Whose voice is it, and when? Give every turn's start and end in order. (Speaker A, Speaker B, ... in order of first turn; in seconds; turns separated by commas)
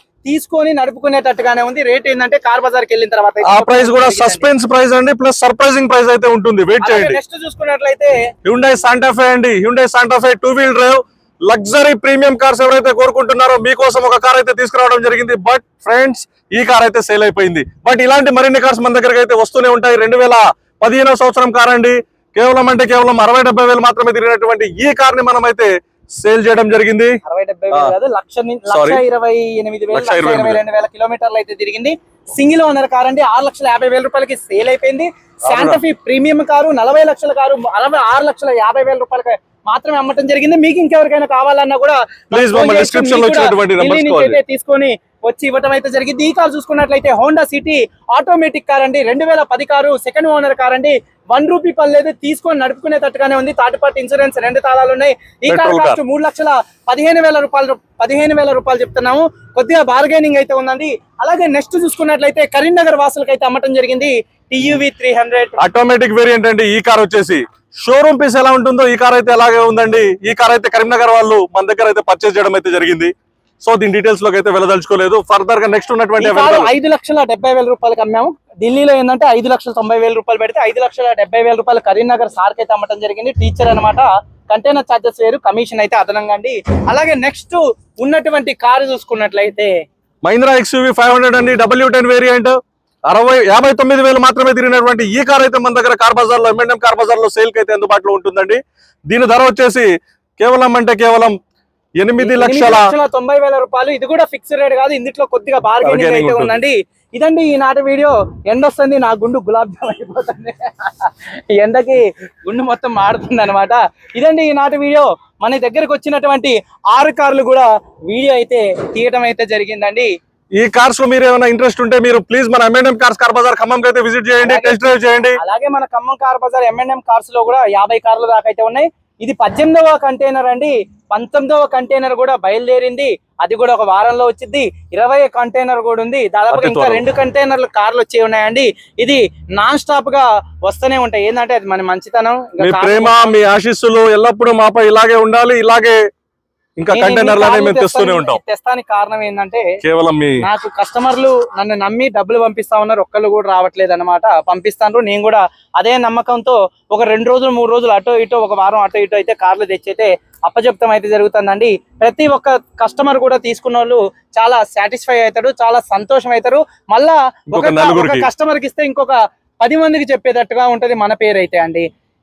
Speaker A: 0.2-4.5, Speaker B: 3.4-7.2, Speaker A: 6.8-8.1, Speaker B: 8.4-27.1, Speaker A: 27.2-65.5, Speaker B: 28.7-29.0, Speaker B: 29.9-30.6, Speaker B: 35.5-35.8, Speaker B: 42.3-44.4, Speaker B: 55.5-56.0, Speaker B: 65.6-76.7, Speaker A: 76.2-89.7, Speaker B: 90.2-92.5, Speaker B: 93.1-101.4, Speaker B: 102.0-102.9, Speaker A: 102.2-120.1, Speaker B: 105.8-106.5, Speaker B: 120.6-125.4, Speaker A: 124.4-124.8, Speaker A: 125.4-143.3, Speaker B: 136.5-137.0, Speaker B: 142.6-146.0, Speaker B: 146.8-148.4, Speaker A: 146.9-149.6, Speaker B: 149.8-150.4, Speaker A: 150.4-171.9, Speaker B: 167.5-168.3